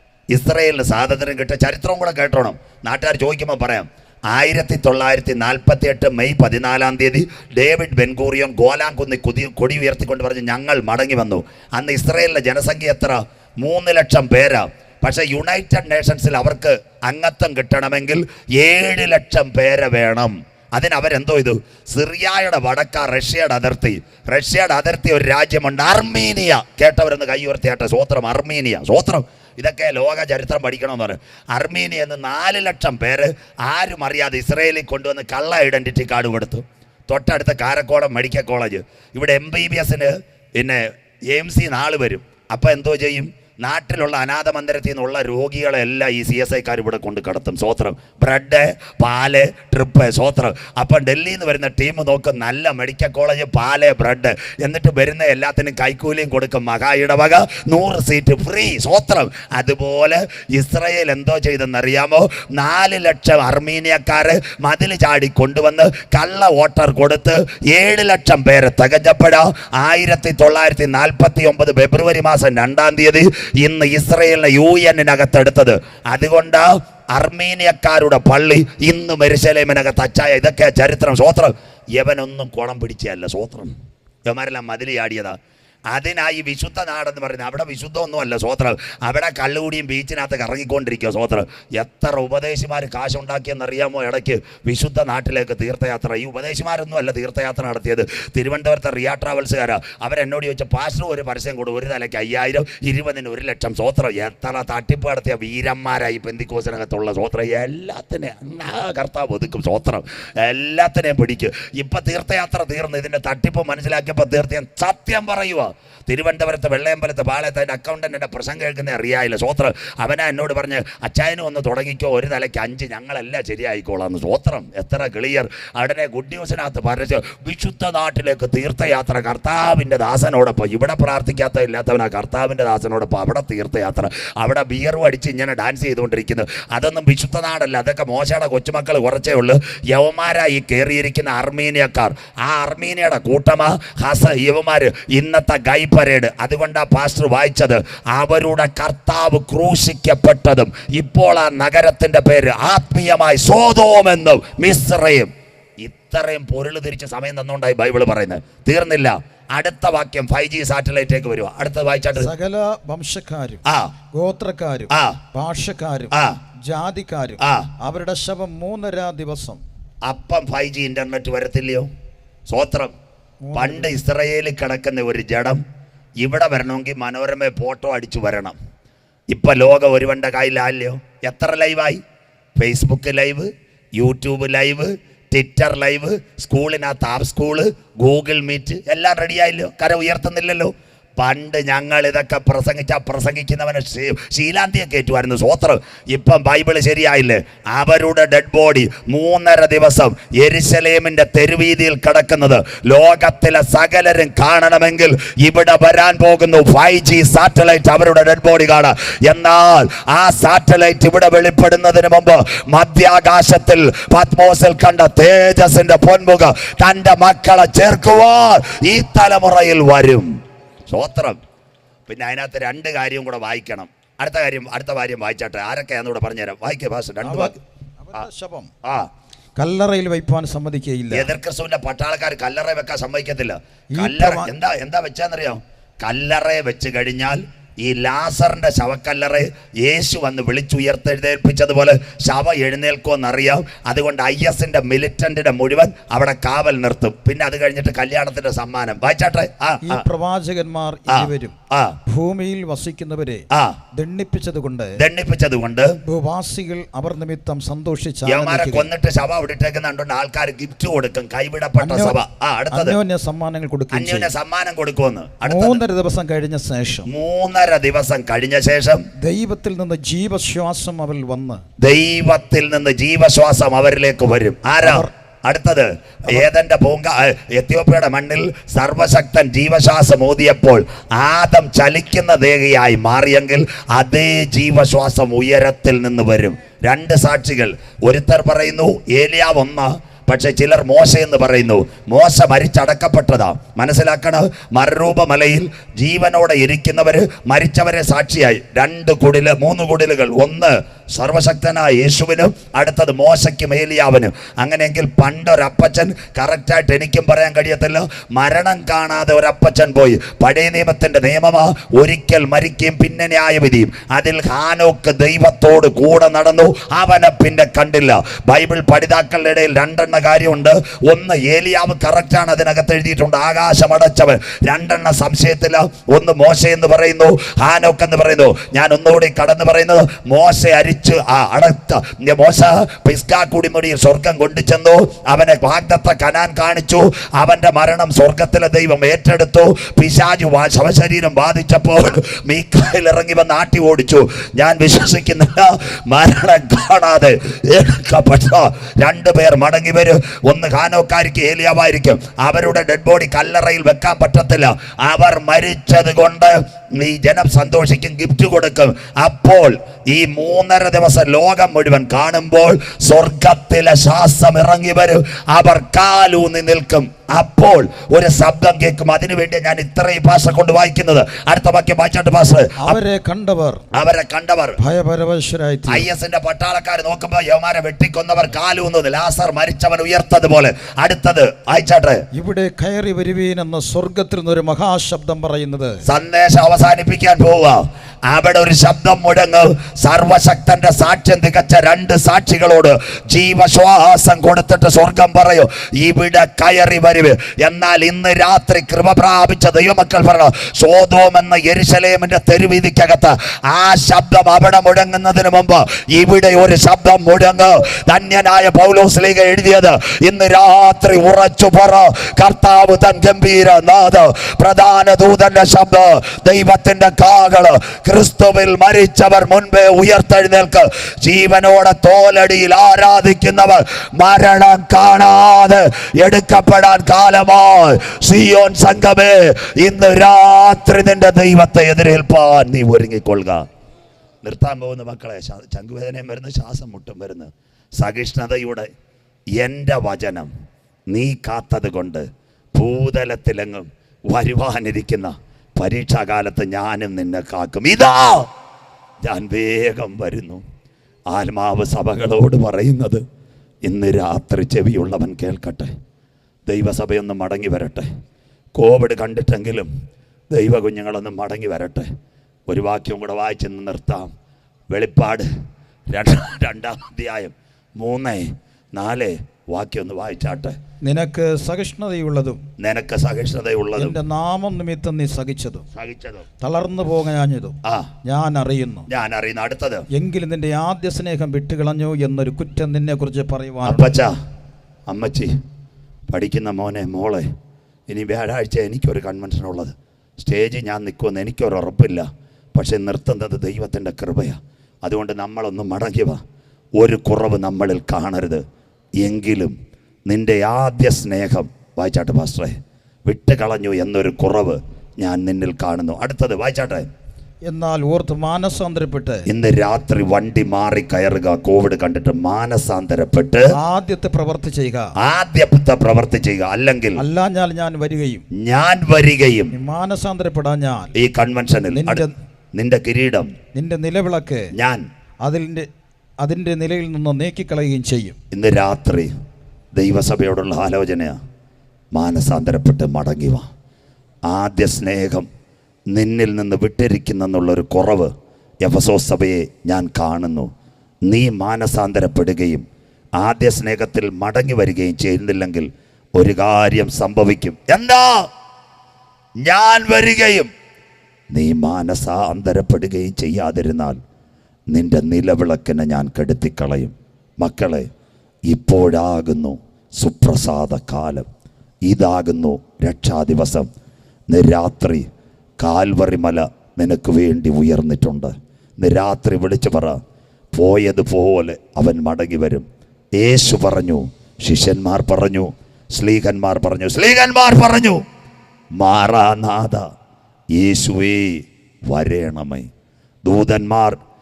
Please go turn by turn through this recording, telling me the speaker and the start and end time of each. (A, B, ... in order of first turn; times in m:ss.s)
0:00.3-1:23.7 A
1:24.3-1:25.4 A
1:25.9-2:42.3 A
2:42.2-2:49.6 B
2:43.7-2:43.9 A
2:44.9-2:45.2 A
2:46.1-2:46.4 A
2:47.4-2:47.7 A
2:50.0-2:51.9 A
2:52.5-2:52.9 A
2:53.4-2:53.9 B
2:53.5-2:55.6 A
2:56.2-2:58.6 A
2:59.3-3:02.0 A
3:02.6-3:40.4 A
3:40.9-3:41.4 A
3:42.1-3:47.6 A
3:47.2-3:48.7 B
3:49.6-3:51.3 B
3:51.1-4:10.0 A
3:54.0-3:54.5 B
4:09.8-4:11.6 B
4:11.1-4:12.0 A
4:12.1-4:15.0 B
4:15.0-4:16.0 A
4:16.1-4:18.9 B
4:18.3-4:23.0 A
4:21.8-4:22.2 B
4:22.7-4:24.3 B
4:23.9-4:25.8 A
4:25.4-4:27.1 B
4:27.1-4:29.1 A
4:29.2-4:31.6 B
4:31.8-6:13.0 A
4:34.8-4:35.1 B
6:12.8-6:13.9 B
6:13.9-6:14.8 A
6:14.8-6:16.1 B
6:15.9-6:22.2 A
6:22.3-6:26.0 B
6:26.0-7:13.6 A
7:14.4-7:18.9 A
7:19.6-7:20.5 A
7:21.1-7:28.5 A
7:29.2-7:30.6 A
7:31.3-7:33.2 A
7:33.8-7:35.9 A
7:36.7-7:38.1 A
7:38.8-7:39.9 A
7:40.5-7:42.1 A
7:42.7-7:44.3 A
7:44.9-7:45.5 A
7:46.1-7:50.8 A
7:51.0-7:52.6 B
7:52.8-7:54.2 A
7:54.0-7:55.9 B
7:55.9-7:56.5 A
7:56.6-7:59.1 B
7:59.1-8:00.1 A
8:00.1-8:04.2 B
8:03.8-8:04.3 A
8:05.1-8:05.6 A
8:06.3-8:07.5 A
8:08.1-8:16.4 A
8:17.0-8:18.6 A
8:19.2-8:19.8 A
8:20.3-8:22.8 A
8:23.3-8:27.1 A
8:27.7-8:29.5 B
8:29.5-8:33.8 A
8:33.7-8:35.1 B
8:35.2-8:37.2 A
8:37.2-8:38.4 B
8:38.5-8:39.7 A
8:39.7-8:41.1 B
8:41.2-8:43.5 A
8:41.9-8:42.3 B
8:43.7-8:44.7 B
8:44.7-8:45.0 A
8:45.4-8:45.9 B
8:46.4-8:48.4 B
8:48.5-8:49.3 A
8:50.0-8:51.4 A
8:52.1-8:53.7 A
8:54.5-8:55.5 A
8:56.1-8:58.3 A
8:58.8-9:00.7 A
9:01.3-9:02.8 A
9:03.4-9:08.5 A
9:09.6-9:10.7 A
9:11.5-9:14.2 A
9:14.9-9:18.1 A
9:18.7-9:21.5 A
9:22.1-9:23.9 A
9:24.5-9:25.3 A
9:25.8-9:30.2 A
9:30.7-9:32.8 A
9:33.4-9:38.2 A
9:39.0-9:40.1 A
9:40.8-9:42.9 A
9:43.4-9:44.2 A